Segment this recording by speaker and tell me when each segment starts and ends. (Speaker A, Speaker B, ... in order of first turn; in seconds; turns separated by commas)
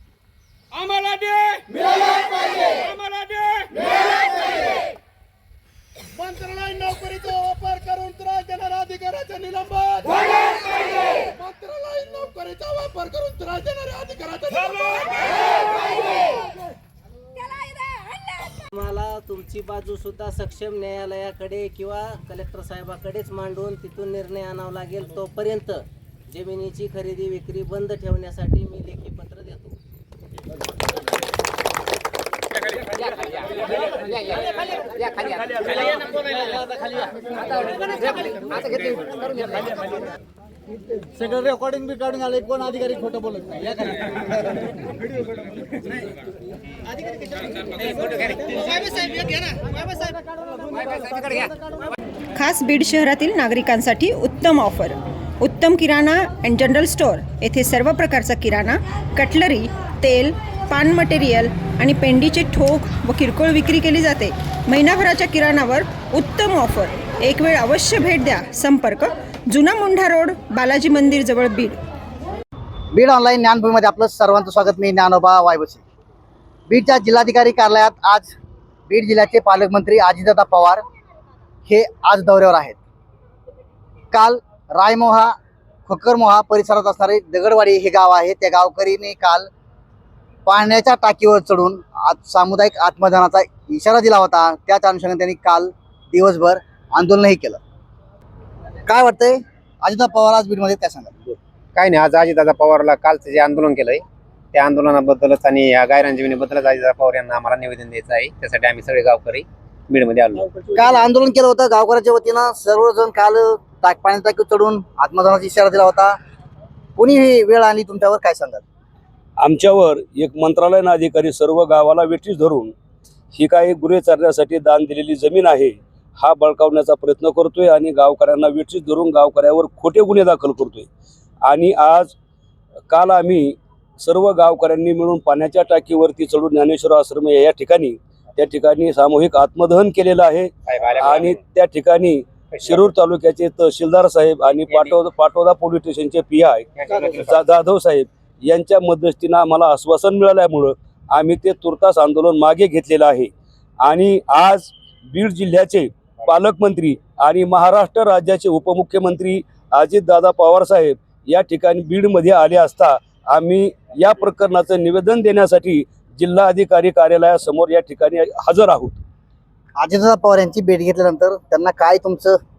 Speaker A: 0.7-2.0, Speaker A: 2.6-4.0, Speaker A: 6.2-10.3, Speaker A: 11.2-15.1, Speaker B: 18.7-29.8, Speaker C: 52.3-71.8, Speaker D: 72.9-75.8, Speaker D: 76.7-78.3, Speaker D: 78.9-80.8, Speaker D: 81.7-82.8, Speaker D: 84.1-85.3, Speaker D: 85.9-89.5, Speaker D: 90.5-97.6, Speaker D: 98.9-101.3, Speaker E: 101.7-104.0, Speaker E: 104.5-110.6, Speaker D: 110.7-116.2, Speaker D: 117.0-118.6, Speaker F: 119.4-122.7, Speaker F: 123.3-130.9, Speaker F: 131.4-132.1, Speaker F: 132.9-153.3, Speaker E: 140.7-141.4, Speaker E: 142.5-142.9, Speaker E: 144.6-145.0, Speaker E: 146.8-147.4, Speaker F: 153.8-168.9, Speaker D: 169.8-172.4